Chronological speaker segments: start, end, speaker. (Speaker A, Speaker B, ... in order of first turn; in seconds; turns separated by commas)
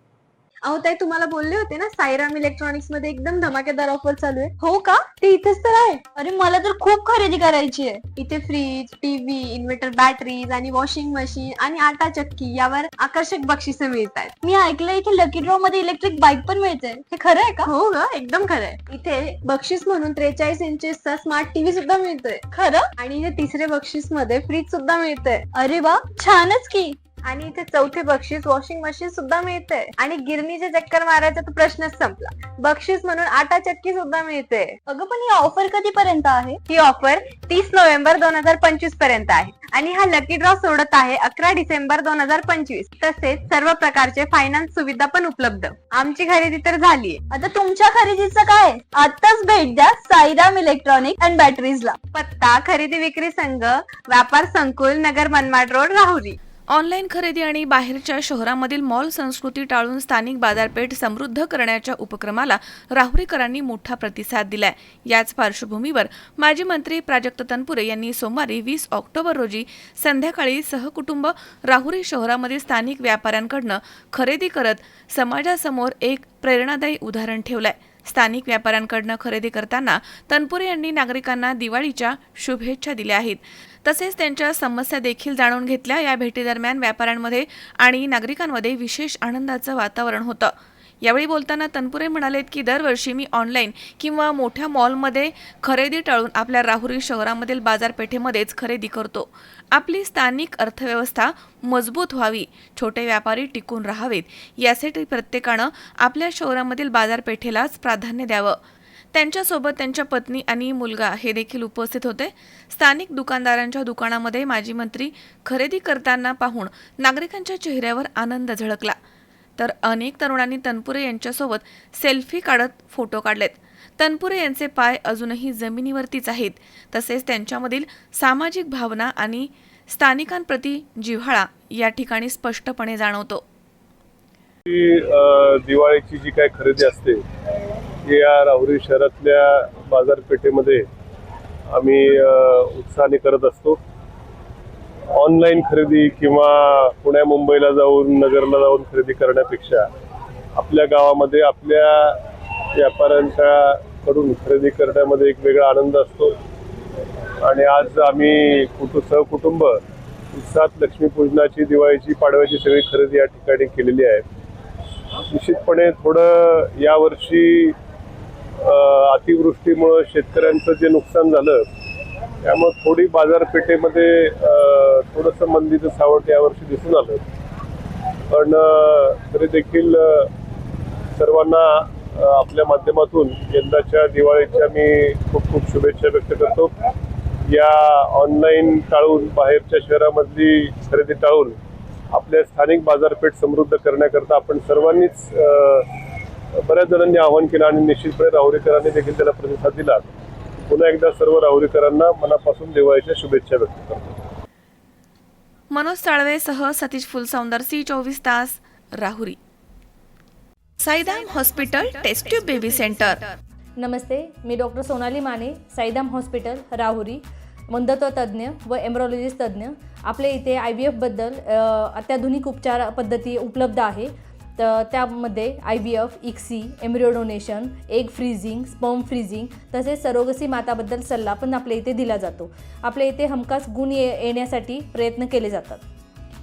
Speaker A: 0.6-4.5, Speaker B: 4.6-5.1, Speaker A: 5.2-6.0, Speaker B: 6.2-8.0, Speaker A: 8.1-14.3, Speaker B: 14.4-17.7, Speaker A: 17.7-22.4, Speaker B: 22.5-22.9, Speaker A: 23.0-25.4, Speaker B: 25.6-26.9, Speaker A: 27.2-34.8, Speaker B: 34.9-36.6, Speaker A: 36.7-47.2, Speaker B: 47.3-52.0, Speaker A: 52.1-56.4, Speaker C: 56.7-108.6, Speaker C: 109.1-119.0, Speaker C: 119.6-133.4, Speaker D: 134.7-137.2, Speaker D: 138.1-140.9, Speaker D: 141.7-143.8, Speaker D: 145.1-149.9, Speaker D: 150.6-152.2, Speaker D: 152.8-156.4, Speaker D: 157.4-159.8, Speaker D: 160.3-164.2, Speaker D: 165.3-167.8, Speaker D: 168.6-171.6, Speaker D: 172.4-177.2, Speaker D: 178.3-180.3, Speaker D: 181.2-186.7, Speaker D: 187.5-191.6, Speaker D: 192.1-195.9, Speaker D: 196.6-200.1, Speaker D: 200.7-204.2, Speaker C: 205.7-209.4, Speaker C: 210.8-213.3, Speaker E: 213.8-235.8